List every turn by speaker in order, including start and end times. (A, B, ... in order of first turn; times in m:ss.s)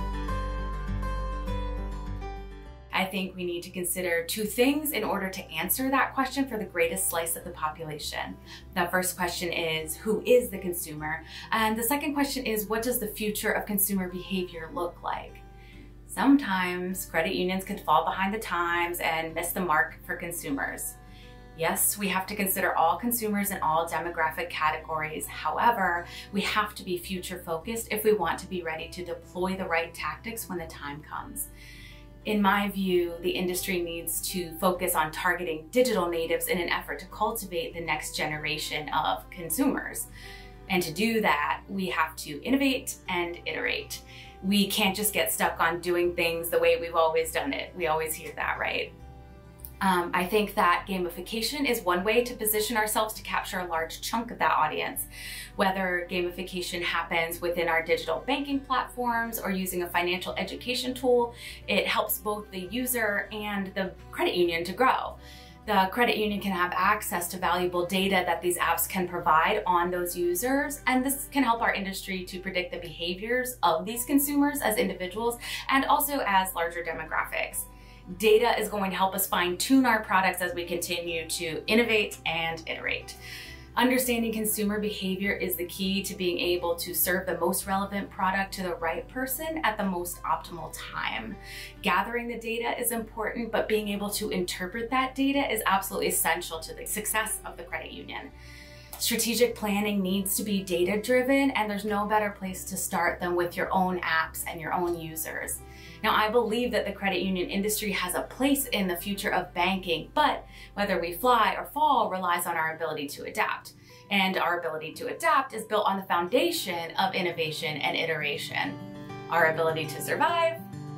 0:02.9-0:15.4 A
0:16.0-0:21.0 A
0:21.5-0:31.5 A
0:32.2-0:40.1 A
0:40.7-0:48.9 A
0:49.8-1:23.2 A
1:23.8-1:38.3 A
1:39.0-2:00.6 A